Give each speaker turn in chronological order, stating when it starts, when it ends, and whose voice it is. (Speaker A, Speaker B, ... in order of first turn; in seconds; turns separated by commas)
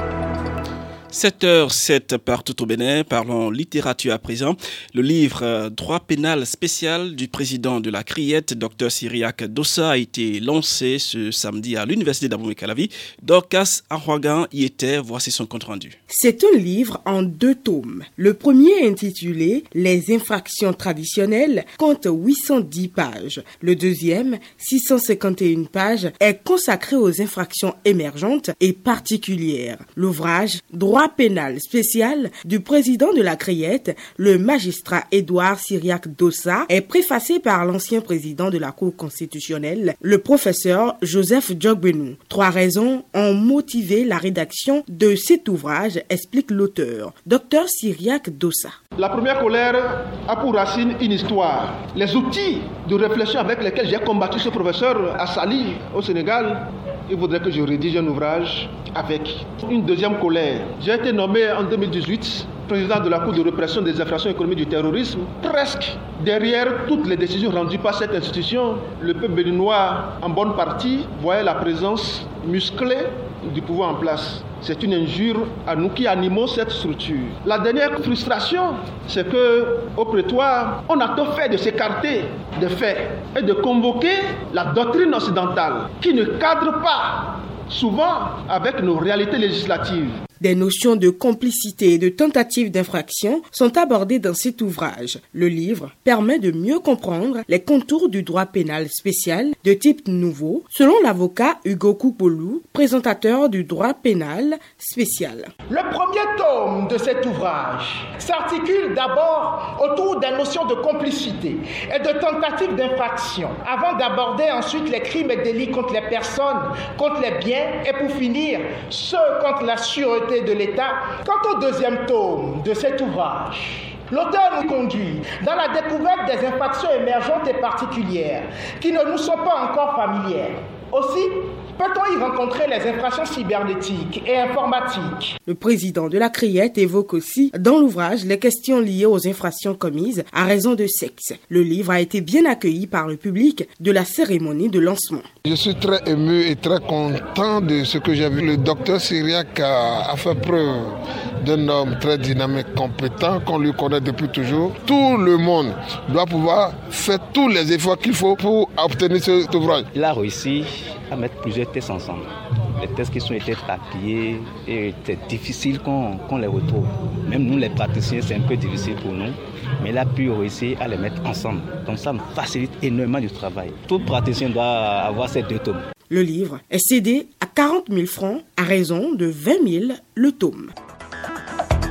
Speaker A: 1.1-15.9, Speaker B: 16.1-48.8, Speaker C: 49.0-90.2, Speaker B: 90.4-105.5, Speaker D: 105.7-135.3, Speaker B: 135.5-145.3, Speaker E: 145.5-150.9, Speaker E: 151.4-159.9, Speaker F: 159.9-175.8, Speaker B: 176.1-180.7